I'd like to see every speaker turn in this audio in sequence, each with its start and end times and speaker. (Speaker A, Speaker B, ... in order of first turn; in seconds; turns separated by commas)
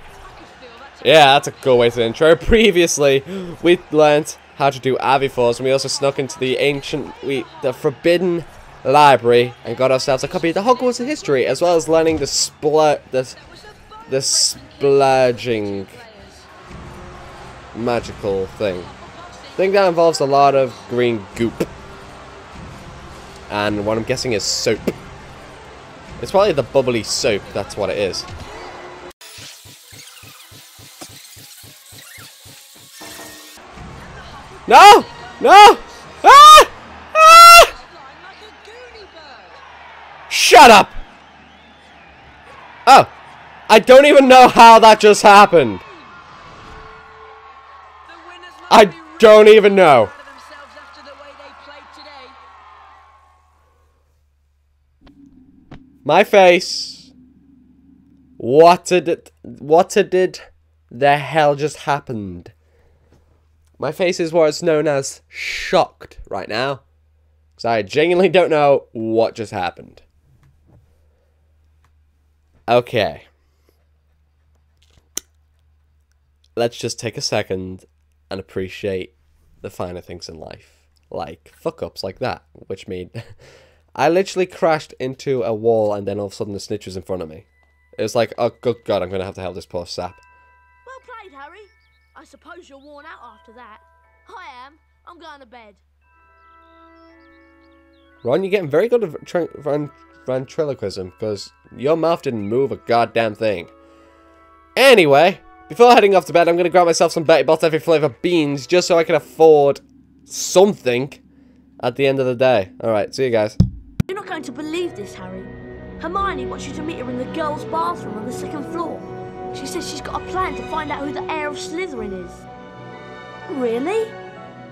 Speaker A: 0.2-1.5, Speaker B: 1.0-13.4, Speaker A: 13.7-16.5, Speaker B: 14.1-15.9, Speaker B: 17.7-18.9, Speaker B: 19.6-21.7, Speaker B: 23.5-24.9, Speaker B: 26.2-28.3, Speaker A: 34.0-36.0, Speaker B: 34.7-37.8, Speaker A: 37.2-39.6, Speaker B: 40.3-41.0, Speaker B: 42.9-43.1, Speaker B: 43.7-45.8, Speaker A: 48.1-52.4, Speaker B: 48.7-50.1, Speaker B: 56.0-57.1, Speaker B: 58.4-62.5, Speaker B: 63.8-66.8, Speaker B: 67.6-70.0, Speaker B: 72.7-73.3, Speaker B: 76.6-83.2, Speaker B: 84.0-87.5, Speaker B: 88.0-90.2, Speaker A: 90.9-95.8, Speaker B: 98.2-103.7, Speaker B: 104.8-111.2, Speaker B: 111.8-113.6, Speaker A: 114.1-122.5, Speaker A: 123.5-124.2